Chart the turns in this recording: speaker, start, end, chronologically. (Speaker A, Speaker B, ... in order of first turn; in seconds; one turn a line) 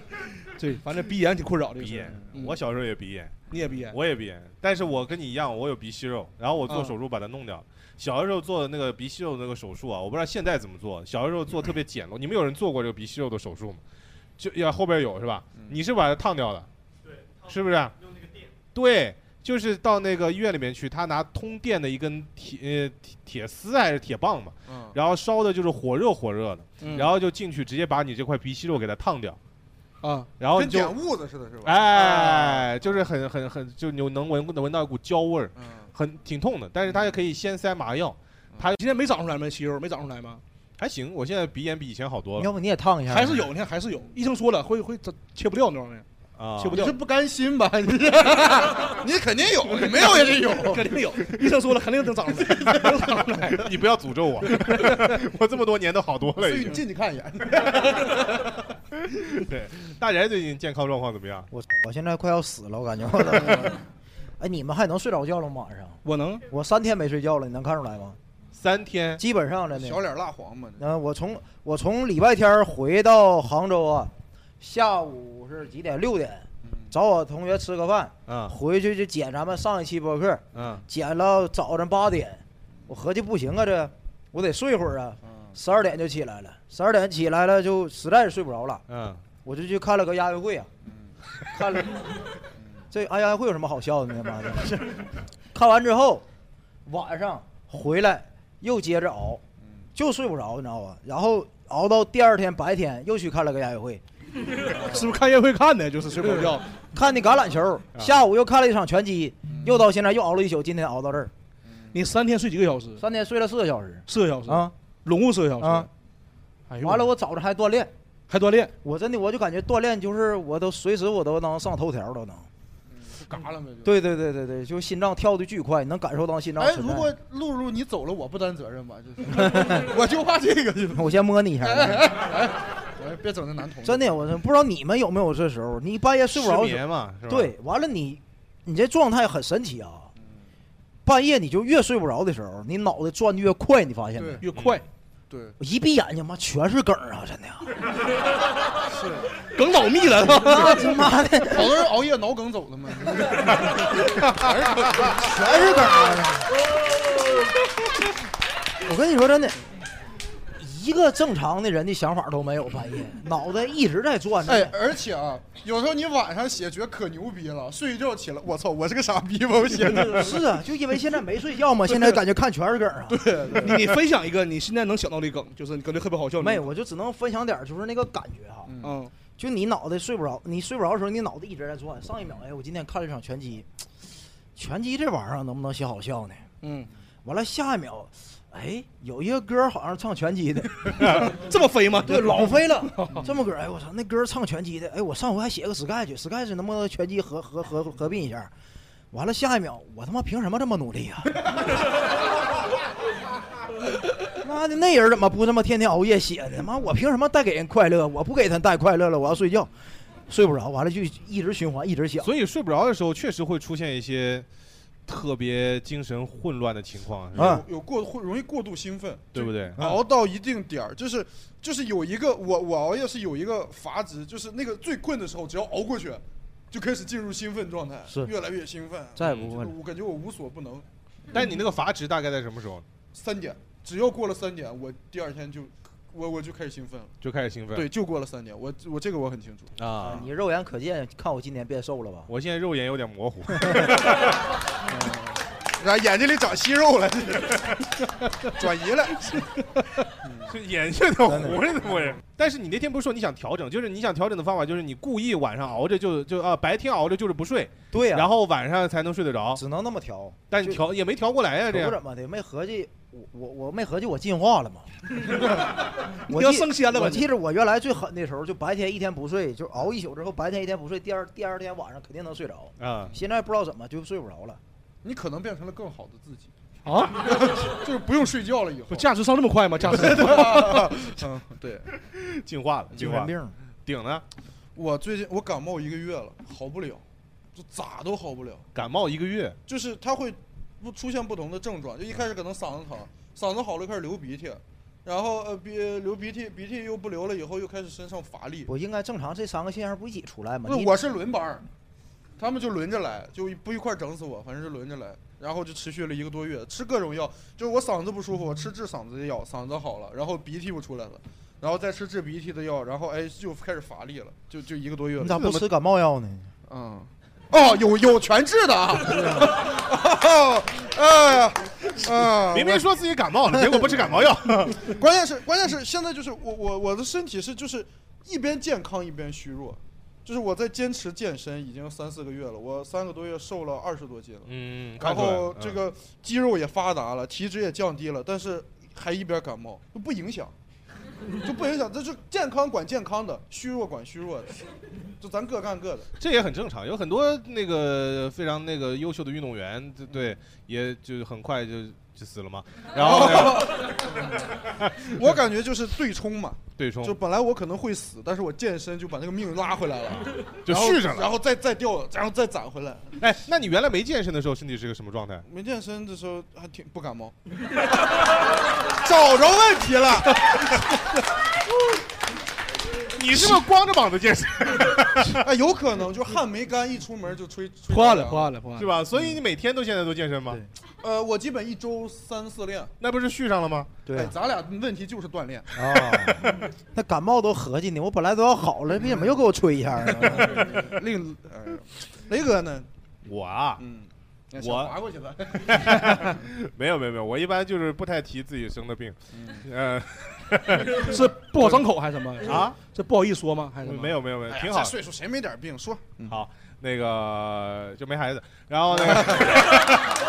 Speaker A: 0.6-2.6
Speaker B: 1.8-3.4
Speaker A: 3.5-4.0
Speaker B: 3.9-13.8
Speaker B: 14.4-16.7
Speaker B: 17.4-17.9
Speaker B: 18.7-29.4
Speaker C: 24.7-25.0
Speaker A: 26.8-27.1
Speaker A: 30.0-30.3
Speaker B: 30.4-30.9
Speaker C: 30.5-33.0
Speaker B: 31.6-38.8
Speaker C: 35.6-35.9
Speaker A: 38.8-40.4
Speaker B: 40.8-42.5
Speaker D: 42.4-43.5
Speaker A: 43.1-46.0
Speaker B: 46.4-46.8
Speaker A: 46.6-47.0
Speaker C: 46.7-50.9
Speaker A: 50.2-53.7
Speaker B: 53.6-56.8
Speaker A: 54.5-55.0
Speaker C: 56.4-58.5
Speaker B: 59.4-61.5
Speaker D: 61.5-63.8
Speaker C: 63.5-63.8
Speaker D: 64.4-68.2
Speaker A: 66.0-66.4
Speaker B: 68.5-69.2
Speaker D: 69.2-70.0
Speaker C: 69.7-70.8
Speaker D: 70.8-88.8
Speaker C: 76.6-76.9
Speaker B: 78.3-78.5
Speaker B: 80.5-80.8
Speaker B: 88.9-89.2
Speaker D: 89.4-90.7
Speaker D: 91.5-92.2
Speaker D: 92.9-95.0
Speaker D: 95.5-96.2
Speaker D: 96.8-99.4
Speaker D: 100.0-104.0
Speaker C: 104.7-105.1
Speaker A: 104.7-106.7
Speaker D: 106.9-111.3
Speaker C: 109.5-109.8
Speaker A: 111.9-113.0
Speaker D: 113.0-114.7
Speaker A: 114.1-115.9
Speaker D: 115.6-115.9
Speaker A: 116.7-117.1
Speaker D: 116.8-117.9
Speaker A: 118.3-118.7
Speaker D: 118.8-122.5
Speaker C: 122.9-123.9
Speaker D: 123.8-127.1
Speaker C: 126.6-134.1
Speaker D: 129.3-129.9
Speaker D: 130.9-132.3
Speaker D: 133.8-140.1
Speaker B: 136.3-137.5
Speaker D: 141.0-144.4
Speaker C: 144.2-144.4
Speaker A: 144.4-144.8
Speaker C: 145.3-145.6
Speaker D: 145.6-147.7
Speaker C: 148.9-149.3
Speaker A: 149.5-150.8
Speaker D: 150.2-151.8
Speaker C: 151.5-155.3
Speaker D: 155.0-156.5
Speaker D: 158.8-159.6
Speaker D: 160.6-164.7
Speaker C: 164.5-170.4
Speaker D: 170.0-173.6
Speaker C: 173.1-173.8
Speaker A: 173.6-176.7
Speaker D: 176.4-178.8
Speaker C: 178.7-179.0
Speaker A: 178.8-179.1
Speaker D: 179.4-183.7
Speaker D: 184.6-186.4
Speaker A: 186.6-186.9
Speaker D: 187.2-191.3
Speaker A: 191.1-193.2
Speaker D: 192.0-198.5
Speaker D: 199.1-201.5
Speaker D: 204.3-209.7
Speaker D: 210.3-212.3
Speaker B: 212.2-214.5
Speaker B: 215.1-217.6
Speaker D: 217.3-217.6
Speaker C: 217.4-230.9
Speaker B: 219.3-219.9
Speaker D: 229.2-229.8
Speaker B: 231.3-232.8
Speaker C: 233.1-237.1
Speaker B: 237.2-237.9
Speaker C: 237.7-240.2
Speaker B: 239.8-240.2
Speaker D: 240.0-242.3
Speaker B: 242.3-244.2
Speaker D: 243.6-243.9
Speaker C: 244.9-247.8
Speaker C: 248.4-249.5
Speaker C: 250.2-250.5
Speaker B: 250.5-259.6
Speaker D: 251.2-251.6
Speaker D: 257.9-258.3
Speaker D: 259.5-260.8
Speaker B: 260.5-262.0
Speaker D: 261.7-264.9
Speaker A: 266.3-267.3
Speaker D: 266.3-274.6
Speaker B: 272.8-273.1
Speaker C: 275.0-276.5
Speaker A: 276.9-277.3
Speaker C: 277.1-279.1
Speaker A: 278.9-281.0
Speaker C: 279.9-281.9
Speaker B: 282.1-284.2
Speaker D: 282.9-283.5
Speaker C: 284.8-287.0
Speaker C: 287.5-288.6
Speaker B: 288.8-289.6
Speaker C: 289.7-298.7
Speaker D: 298.7-301.0
Speaker C: 300.6-301.7
Speaker C: 302.4-315.5
Speaker D: 315.2-316.5
Speaker C: 316.7-322.9
Speaker B: 322.5-324.9
Speaker C: 323.9-324.2
Speaker C: 324.7-340.5
Speaker B: 334.5-335.8
Speaker C: 341.4-344.6
Speaker C: 345.2-346.1
Speaker B: 346.2-353.9
Speaker C: 350.1-350.4
Speaker C: 353.0-354.4
Speaker B: 354.8-355.1
Speaker C: 355.1-363.1
Speaker B: 356.8-357.2
Speaker B: 360.6-361.3
Speaker B: 363.2-365.5
Speaker C: 365.5-367.4
Speaker C: 368.9-370.9
Speaker B: 373.1-375.4
Speaker C: 375.4-378.5
Speaker A: 377.9-378.9
Speaker B: 378.8-380.6
Speaker C: 381.0-382.9
Speaker B: 383.0-383.9
Speaker D: 384.1-384.3
Speaker C: 384.1-385.7
Speaker D: 385.8-390.9
Speaker C: 389.0-389.4
Speaker C: 390.1-392.9
Speaker B: 393.2-393.8
Speaker C: 393.8-396.4
Speaker B: 394.6-394.9
Speaker B: 395.6-401.2
Speaker C: 399.3-399.6
Speaker A: 400.9-404.1
Speaker B: 402.4-402.8
Speaker B: 403.8-405.0
Speaker C: 404.5-406.4
Speaker B: 406.3-410.0
Speaker C: 408.9-409.9